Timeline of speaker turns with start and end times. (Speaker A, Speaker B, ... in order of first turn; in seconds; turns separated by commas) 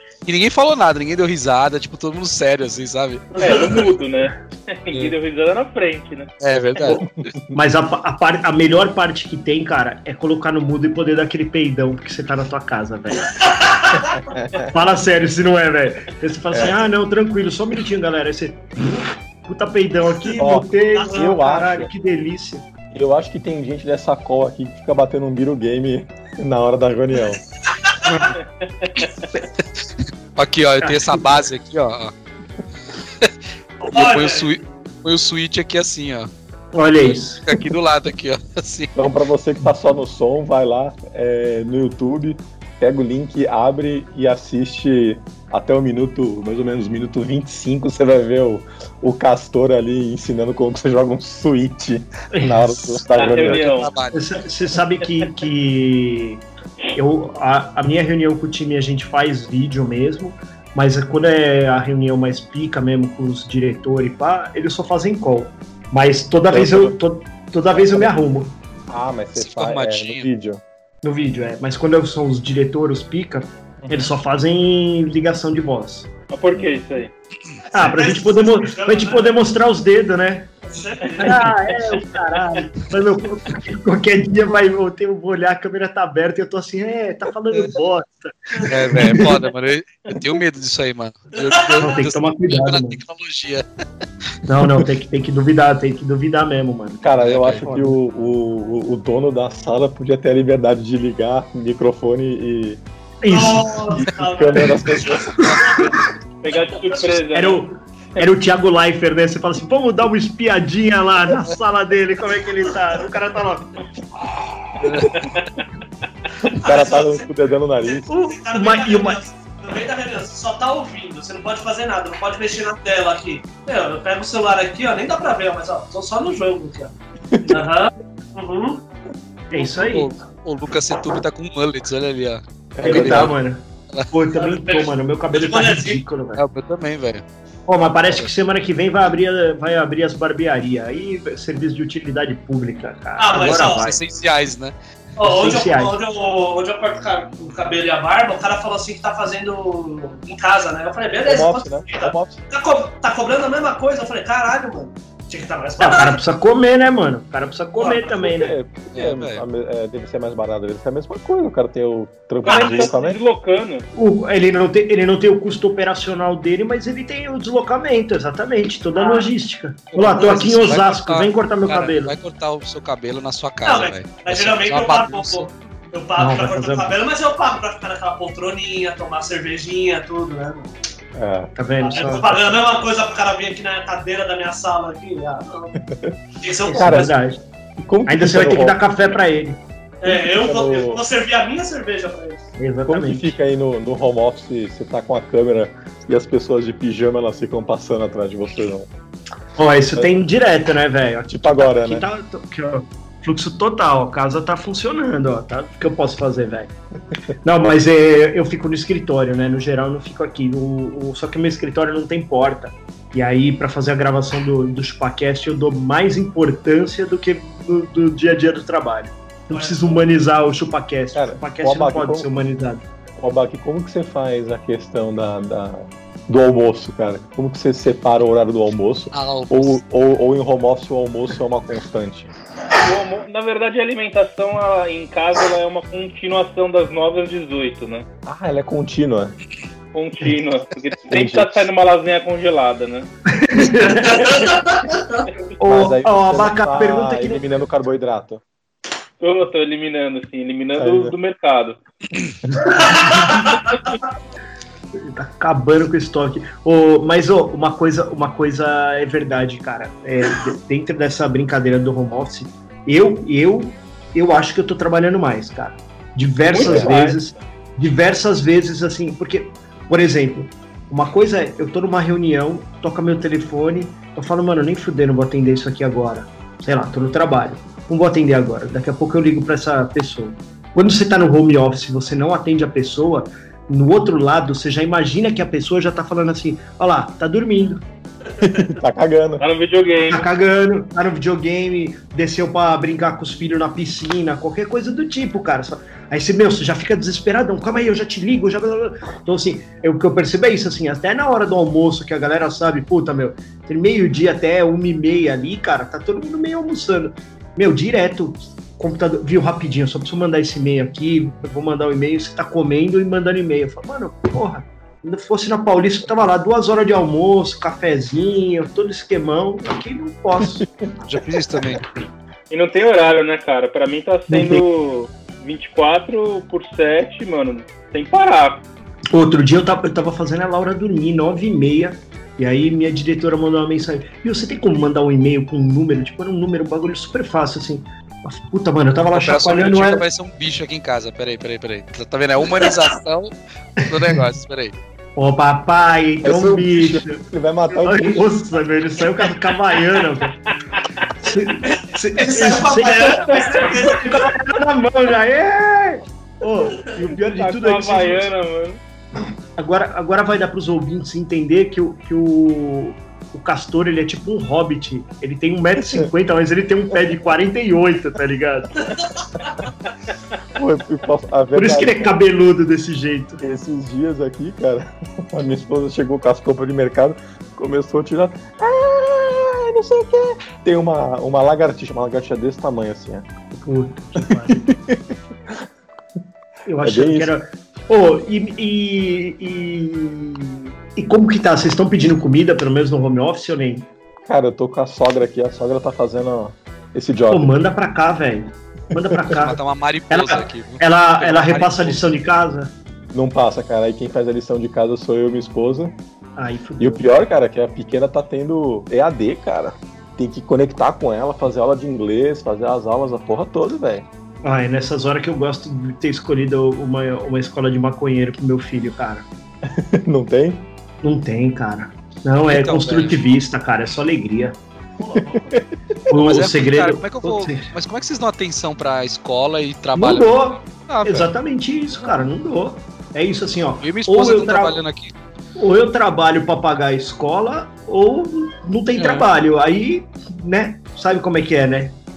Speaker A: 0.3-3.4, Speaker B: 3.4-3.9, Speaker C: 3.4-7.0, Speaker A: 6.4-7.3, Speaker D: 7.0-7.4, Speaker E: 7.5-13.4, Speaker B: 13.2-14.2, Speaker D: 14.0-14.7, Speaker E: 14.6-18.6, Speaker D: 16.5-16.8, Speaker E: 19.4-22.6, Speaker B: 20.2-21.4, Speaker D: 20.4-21.9, Speaker D: 22.9-27.4, Speaker C: 28.3-29.3, Speaker A: 29.4-32.1, Speaker E: 30.8-31.4, Speaker A: 33.0-33.3, Speaker A: 33.9-36.3, Speaker B: 33.9-34.6, Speaker E: 36.7-37.6, Speaker A: 37.0-39.0, Speaker D: 39.0-53.9, Speaker E: 52.3-53.0, Speaker C: 53.1-53.9, Speaker A: 53.4-54.4, Speaker E: 54.1-56.4, Speaker E: 57.0-68.5, Speaker D: 66.5-67.0, Speaker D: 67.7-68.1, Speaker D: 68.9-70.6, Speaker A: 69.4-70.3, Speaker E: 71.0-76.1, Speaker D: 73.8-74.1, Speaker C: 76.3-77.1, Speaker E: 77.7-80.5, Speaker B: 77.7-79.4, Speaker B: 80.7-81.5, Speaker C: 81.0-81.4, Speaker E: 81.2-89.4, Speaker A: 88.7-93.7, Speaker B: 91.3-91.8, Speaker E: 91.8-93.0, Speaker E: 94.5-98.0, Speaker A: 94.6-94.9, Speaker D: 97.0-102.8, Speaker A: 97.2-97.6, Speaker E: 103.2-103.8, Speaker B: 103.3-105.9, Speaker D: 103.9-105.6, Speaker E: 104.5-106.1, Speaker C: 106.4-107.6, Speaker B: 106.6-107.2, Speaker E: 107.3-113.8, Speaker A: 114.8-115.5, Speaker C: 115.0-115.5, Speaker D: 116.4-118.1, Speaker B: 116.6-117.3, Speaker B: 117.8-126.9, Speaker E: 118.1-119.2, Speaker D: 127.3-127.6, Speaker B: 127.5-128.8, Speaker E: 129.5-130.1, Speaker A: 129.6-133.4, Speaker D: 132.8-133.3, Speaker E: 132.8-136.4, Speaker B: 134.4-136.0, Speaker A: 136.4-137.2, Speaker E: 137.7-144.0, Speaker B: 143.2-143.9, Speaker A: 143.3-144.8, Speaker B: 145.2-156.2, Speaker E: 145.2-146.0, Speaker D: 151.2-152.4, Speaker E: 155.8-158.6, Speaker B: 157.8-158.2, Speaker D: 158.2-163.2, Speaker A: 158.9-159.4, Speaker C: 162.4-163.9, Speaker E: 163.9-172.1, Speaker B: 169.0-169.3, Speaker A: 169.9-175.6, Speaker B: 173.6-180.7, Speaker E: 176.2-177.0, Speaker D: 181.2-181.5, Speaker E: 181.6-182.5, Speaker B: 181.8-185.8, Speaker D: 185.8-186.2, Speaker B: 186.4-187.1, Speaker E: 186.7-187.4, Speaker D: 186.8-187.2, Speaker D: 187.8-188.8, Speaker E: 188.1-190.2, Speaker B: 190.0-192.5, Speaker D: 190.3-191.0, Speaker E: 192.6-193.3, Speaker D: 192.9-198.9, Speaker E: 199.6-206.7, Speaker D: 201.3-202.1, Speaker E: 207.4-222.8, Speaker B: 219.5-220.1, Speaker D: 221.2-222.3, Speaker D: 223.2-232.3, Speaker A: 229.1-229.8, Speaker C: 232.8-238.1, Speaker D: 238.3-239.4, Speaker C: 239.9-243.1, Speaker D: 241.1-241.7, Speaker E: 243.3-244.4, Speaker B: 244.1-245.2, Speaker E: 245.6-247.5, Speaker D: 245.7-248.4, Speaker C: 249.2-251.8, Speaker D: 250.8-251.2, Speaker E: 252.4-253.5, Speaker B: 252.8-253.6, Speaker E: 254.9-287.8, Speaker C: 266.5-267.2, Speaker D: 266.6-267.2, Speaker D: 288.4-289.4, Speaker C: 289.4-290.3, Speaker E: 290.1-320.7, Speaker A: 321.1-321.9, Speaker C: 322.5-328.6, Speaker D: 324.3-324.6, Speaker E: 329.1-340.1, Speaker A: 339.1-344.8, Speaker E: 343.9-344.3, Speaker E: 345.2-350.4, Speaker D: 346.2-348.3, Speaker C: 350.8-351.1, Speaker E: 351.2-358.3, Speaker B: 351.6-354.4, Speaker C: 353.2-353.6, Speaker C: 357.2-358.8, Speaker E: 359.6-368.9, Speaker D: 365.8-366.1, Speaker B: 368.8-369.5, Speaker D: 370.6-372.2, Speaker E: 371.5-373.4, Speaker D: 373.4-383.3, Speaker E: 383.6-384.7, Speaker D: 384.2-385.2, Speaker E: 386.7-393.9, Speaker D: 386.8-387.4, Speaker D: 394.2-397.6, Speaker E: 397.3-402.7, Speaker A: 399.3-402.1, Speaker D: 403.1-406.0, Speaker E: 406.4-407.2, Speaker D: 406.8-414.1, Speaker E: 414.4-419.3, Speaker D: 419.6-420.7, Speaker E: 421.0-424.6, Speaker A: 422.5-423.2, Speaker B: 425.0-425.6, Speaker D: 425.2-425.7, Speaker E: 426.1-427.7, Speaker A: 426.1-431.3, Speaker E: 429.9-434.8, Speaker A: 433.8-435.1, Speaker E: 435.6-442.0, Speaker A: 439.0-439.3